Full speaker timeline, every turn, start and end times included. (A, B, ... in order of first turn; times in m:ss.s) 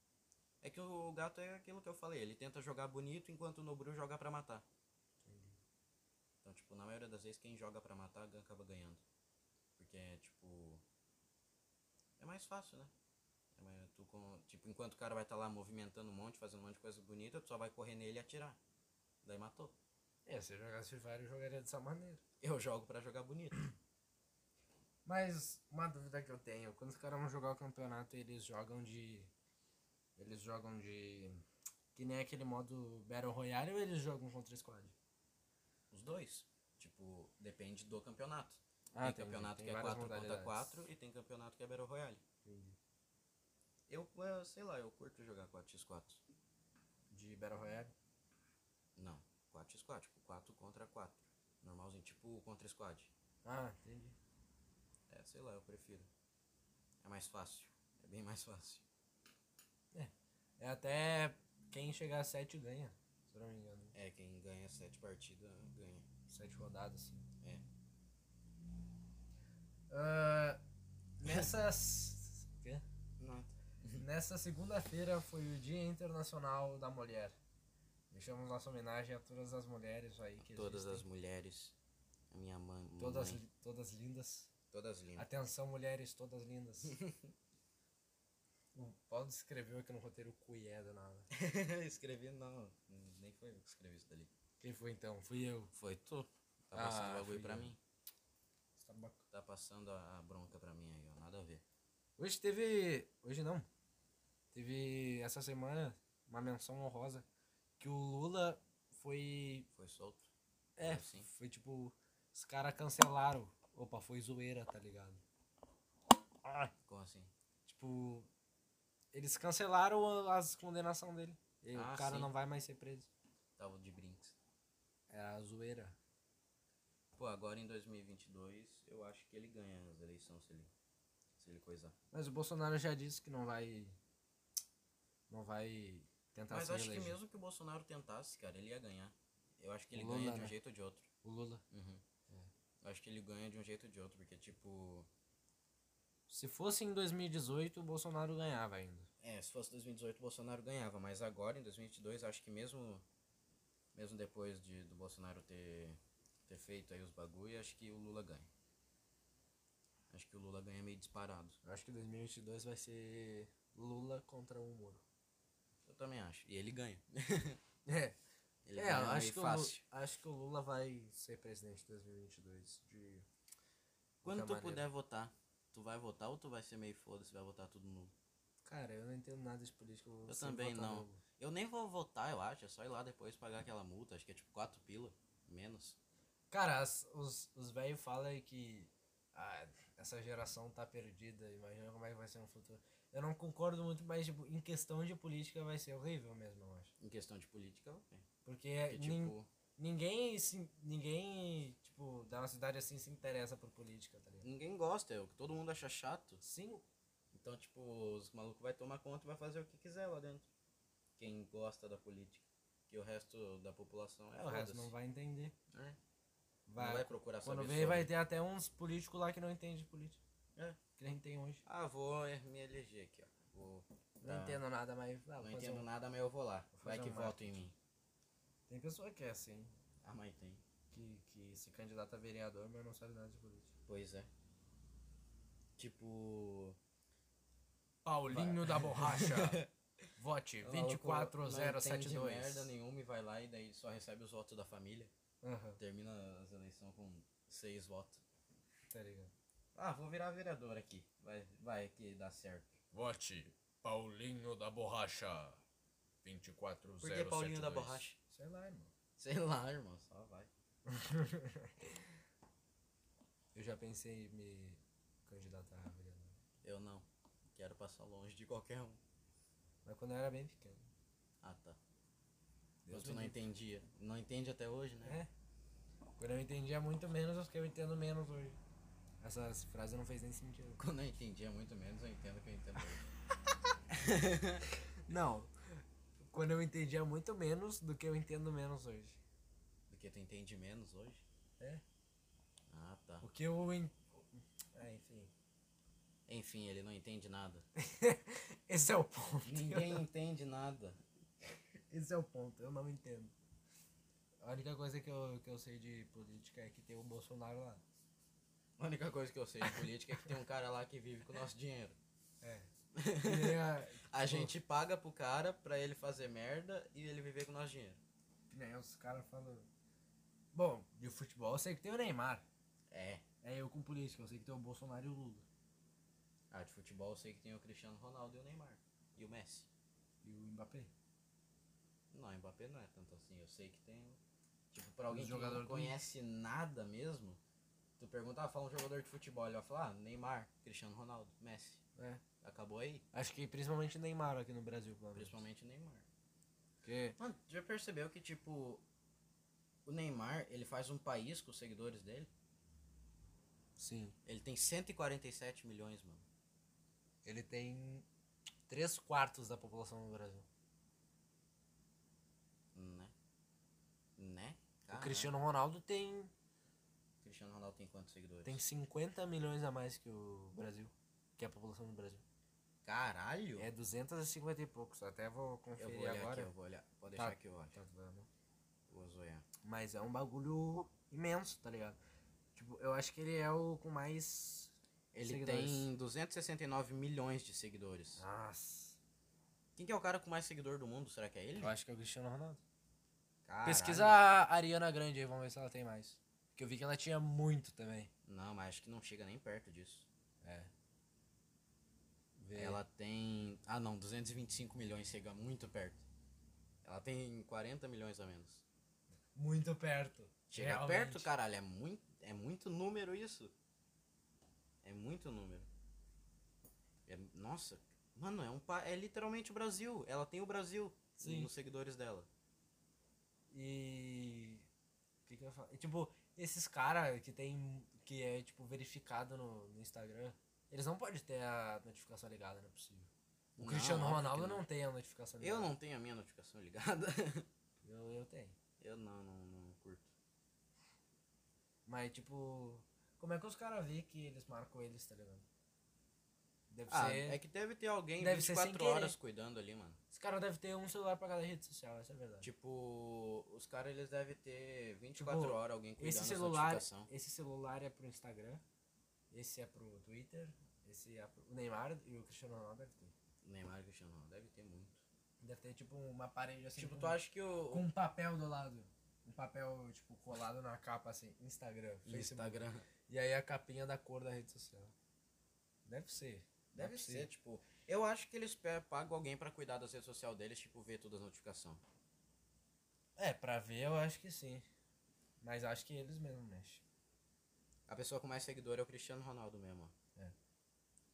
0:00.6-0:04.6 A
0:05.2-0:05.6 B
0:06.4-0:09.0 A
0:09.8-0:10.8 A
0:12.2-0:12.9 A
0:13.5-0:18.6 A
0:19.2-0:19.7 A
0:20.2-0:22.2 B
0:22.4-0:23.6 A
0:25.0-0:29.3 B
0:30.2-0:31.4 B
0:31.9-0:34.9 B
0:35.9-0:42.2 A
0:39.0-0:40.8 B
0:42.4-0:42.8 B
0:43.9-0:46.2 A
0:47.1-0:47.9 B
0:49.0-0:53.1 A
0:53.4-0:54.2 B
0:55.1-0:56.1 A
0:57.0-0:58.8 A
0:59.9-1:03.9 B
1:03.9-1:06.0 A
1:06.3-1:07.2 B
1:09.9-1:10.6 B
1:11.2-1:12.8 B
1:13.2-1:14.0 A
1:14.0-1:17.4 B
1:18.1-1:21.0 B
1:20.4-1:21.7 A
1:22.3-1:23.4 A
1:23.0-1:24.5 B
1:24.7-1:25.3 A
1:25.2-1:27.0 B
1:26.8-1:27.3 A
1:28.7-1:31.3 B
1:31.3-1:34.3 A
1:34.6-1:35.7 B
1:35.7-1:37.8 A
1:36.7-1:37.7 B
1:38.8-1:39.2 B
1:39.3-1:41.6 A
1:42.2-1:43.7 B
1:44.5-1:47.2 B
1:47.8-1:49.7 B
1:49.8-1:50.3 A
1:50.8-1:55.2 B
1:50.8-1:51.3 A
1:56.4-1:56.7 B
1:56.8-1:57.3 A
1:57.6-1:58.3 B
1:59.1-2:03.1 B
2:01.7-2:02.3 A
2:03.6-2:04.4 A
2:05.1-2:06.0 B
2:07.1-2:10.7 A
2:11.4-2:11.9 A
2:12.1-2:14.0 B
2:15.3-2:17.2 B
2:16.5-2:21.1 A
2:19.9-2:20.5 B
2:21.2-2:21.6 B
2:21.7-2:22.0 A
2:22.8-2:25.1 A
2:26.3-2:29.1 B
2:29.2-2:33.0 A
2:33.9-2:38.5 A
2:40.1-2:41.6 A
2:41.6-2:45.0 B
2:45.8-2:47.6 A
2:47.8-2:48.2 B
2:48.6-2:49.8 A
2:48.8-2:53.2 B
2:54.2-2:54.9 B
2:54.2-2:58.1 A
2:58.6-3:01.2 B
3:00.2-3:06.0 A
3:06.5-3:16.9 B
3:17.0-3:18.2 A
3:18.4-3:24.4 B
3:18.9-3:19.5 A
3:24.4-3:26.4 A
3:26.4-3:26.8 B
3:27.3-3:30.5 A
3:31.2-3:34.9 A
3:34.4-3:35.5 B
3:35.7-3:36.0 A
3:36.7-3:40.2 B
3:36.8-3:38.1 A
3:41.0-3:41.6 B
3:41.6-3:44.6 A
3:44.2-3:45.9 B
3:45.4-3:47.7 A
3:46.7-3:47.6 B
3:48.7-3:49.7 B
3:50.0-3:50.6 A
3:50.9-3:53.7 B
3:53.9-3:54.3 A
3:55.8-3:56.8 A
3:58.0-3:59.6 B
3:58.2-3:59.7 A
4:00.2-4:02.7 B
4:00.6-4:05.1 A
4:05.4-4:05.8 B
4:05.8-4:08.2 A
4:08.9-4:09.3 B
4:09.7-4:12.8 A
4:12.9-4:15.6 C
4:16.2-4:18.0 C
4:17.0-4:18.2 A
4:18.3-4:18.9 B
4:19.2-4:20.5 A
4:20.8-4:22.0 B
4:23.5-4:26.4 B
4:26.6-4:29.0 A
4:29.8-4:30.9 B
4:31.4-4:31.8 A
4:32.8-4:33.4 B
4:32.9-4:35.2 A
4:35.0-4:35.3 B
4:36.2-4:38.6 B
4:39.2-4:40.8 B
4:40.8-4:43.1 A
4:43.9-4:44.6 A
4:45.1-4:49.2 B
4:49.9-4:51.2 A
4:52.7-4:53.2 A
4:53.2-4:55.3 B
4:56.3-4:57.6 A
4:57.8-5:00.0 B
4:59.4-5:01.0 A
5:01.9-5:03.3 B
5:04.4-5:07.8 B
5:08.8-5:12.0 A
5:09.6-5:10.3 B
5:12.4-5:12.7 B
5:12.9-5:18.0 A
5:13.2-5:14.5 B
5:18.5-5:19.7 B
5:20.5-5:22.4 B
5:22.9-5:23.2 A
5:23.4-5:25.4 B
5:26.5-5:29.7 A
5:30.2-5:30.9 B
5:32.1-5:34.2 A
5:34.7-5:37.4 A
5:35.1-5:36.0 B
5:38.0-5:41.8 A
5:42.0-5:42.2 B
5:42.4-5:43.0 A
5:43.1-5:45.4 B
5:45.1-5:46.0 A
5:46.8-5:47.2 B
5:47.2-5:48.8 A
5:49.8-5:52.3 A
5:53.8-5:54.1 B
5:54.2-5:56.2 A
5:57.2-5:58.0 B
5:58.7-6:00.4 B
6:02.7-6:03.1 A
6:04.2-6:05.3 A
6:04.9-6:06.3 B
6:07.2-6:08.6 A
6:08.4-6:12.2 B
6:12.8-6:13.7 A
6:13.6-6:16.5 B
6:15.8-6:17.8 A
6:17.2-6:18.3 B
6:18.9-6:19.4 A
6:19.6-6:22.0 B
6:22.6-6:25.9 B
6:25.1-6:28.2 A
6:28.2-6:29.0 B
6:29.8-6:31.7 A
6:31.6-6:32.6 B
6:33.4-6:34.2 A
6:33.6-6:38.1 B
6:38.2-6:40.1 A
6:40.4-6:40.7 B
6:42.4-6:42.8 B
6:42.5-6:46.0 A
6:46.8-6:48.6 A
6:49.4-6:51.3 B
6:50.5-6:53.5 A
6:54.8-6:55.7 A
6:57.0-7:02.3 A
7:01.2-7:01.5 B
7:03.5-7:04.6 B
7:05.2-7:15.7 B
7:13.6-7:14.6 A
7:15.4-7:17.5 A
7:17.8-7:18.6 B
7:18.8-7:20.1 A
7:21.9-7:25.4 B
7:26.7-7:27.4 B
7:26.9-7:30.0 A
7:28.2-7:29.2 B
7:30.1-7:32.5 B
7:32.4-7:37.1 A
7:35.2-7:38.6 B
7:39.3-7:43.1 B
7:43.4-7:45.0 A
7:45.4-7:54.9 B
7:46.8-7:47.9 A
7:52.0-7:52.9 A
7:55.8-7:57.3 B
7:56.7-8:01.8 A
8:03.2-8:04.6 B
8:05.4-8:06.8 B
8:07.9-8:09.9 A